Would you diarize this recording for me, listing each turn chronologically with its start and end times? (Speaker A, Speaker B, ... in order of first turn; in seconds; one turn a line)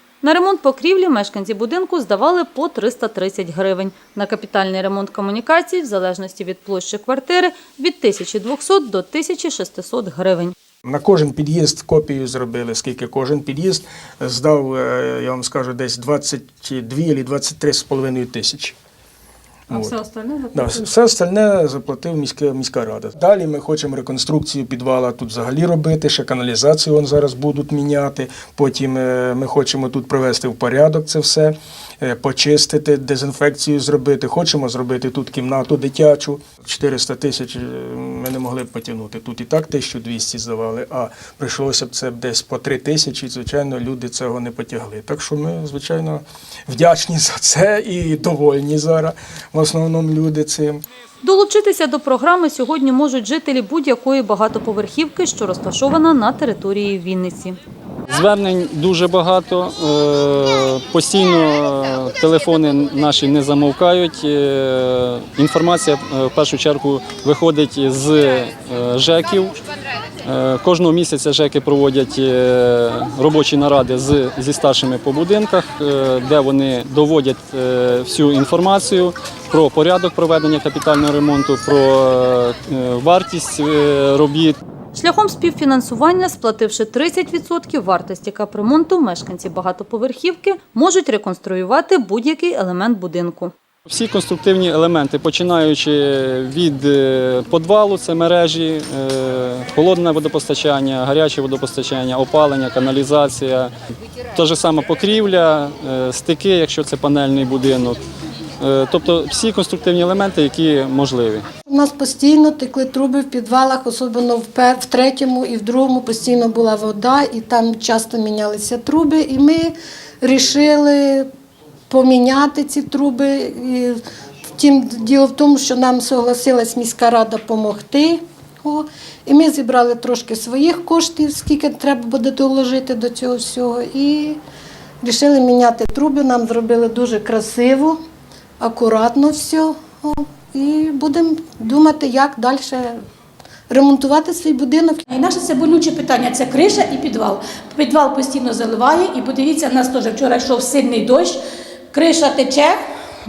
Speaker A: 0.2-10.6
Speaker B: 10.8-18.8
Speaker B: 19.7-20.0
Speaker B: 20.5-50.8
Speaker A: 51.2-57.6
Speaker C: 58.1-69.6
Speaker C: 70.2-84.6
Speaker A: 85.0-93.5
Speaker C: 93.9-103.7
Speaker C: 104.3-108.0
Speaker C: 108.6-111.5
Speaker D: 111.7-121.3
Speaker D: 121.9-134.4
Speaker D: 135.0-138.0
Speaker D: 138.6-143.0
Speaker D: 143.7-145.1
Speaker E: 145.1-151.4
Speaker E: 151.9-152.8